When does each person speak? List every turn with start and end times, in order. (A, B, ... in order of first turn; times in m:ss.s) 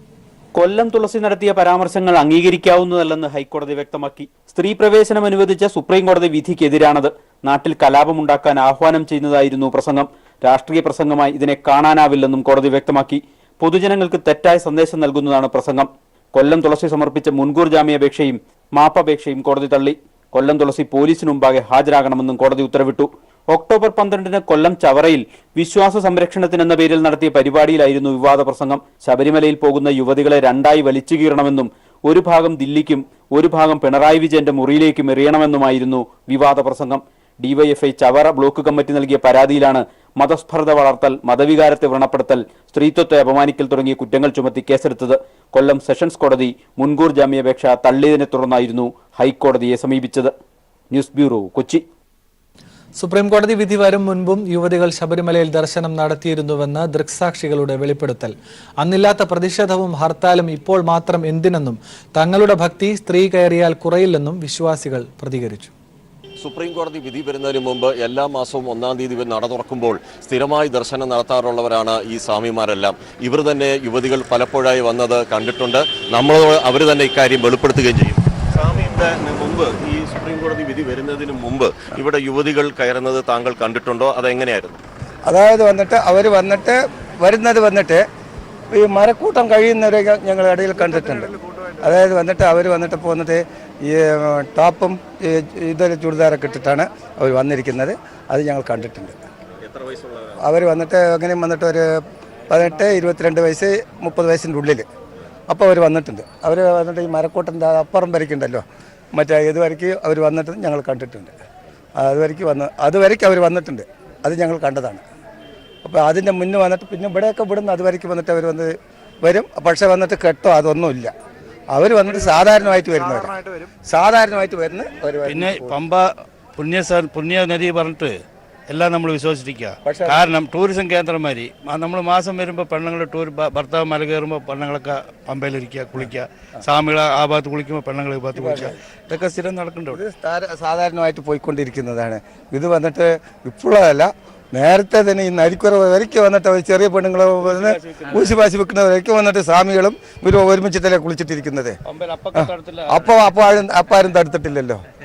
0:00.6-0:50.3 A
0:50.9-0:51.8 A
0:53.0-1:05.7 B
1:06.4-1:24.8 C
1:25.3-1:28.0 D
1:28.7-1:39.2 D
1:39.7-1:40.1 C
1:40.4-1:41.9 D
1:42.5-1:44.9 D
1:45.5-1:51.3 D
1:52.0-1:55.0 D
1:55.8-2:01.1 D
2:01.7-2:05.8 D
2:05.2-2:20.0 E
2:09.8-2:10.2 D
2:18.4-2:31.8 D
2:27.4-2:28.5 E
2:31.9-2:33.2 E
2:32.4-2:34.8 D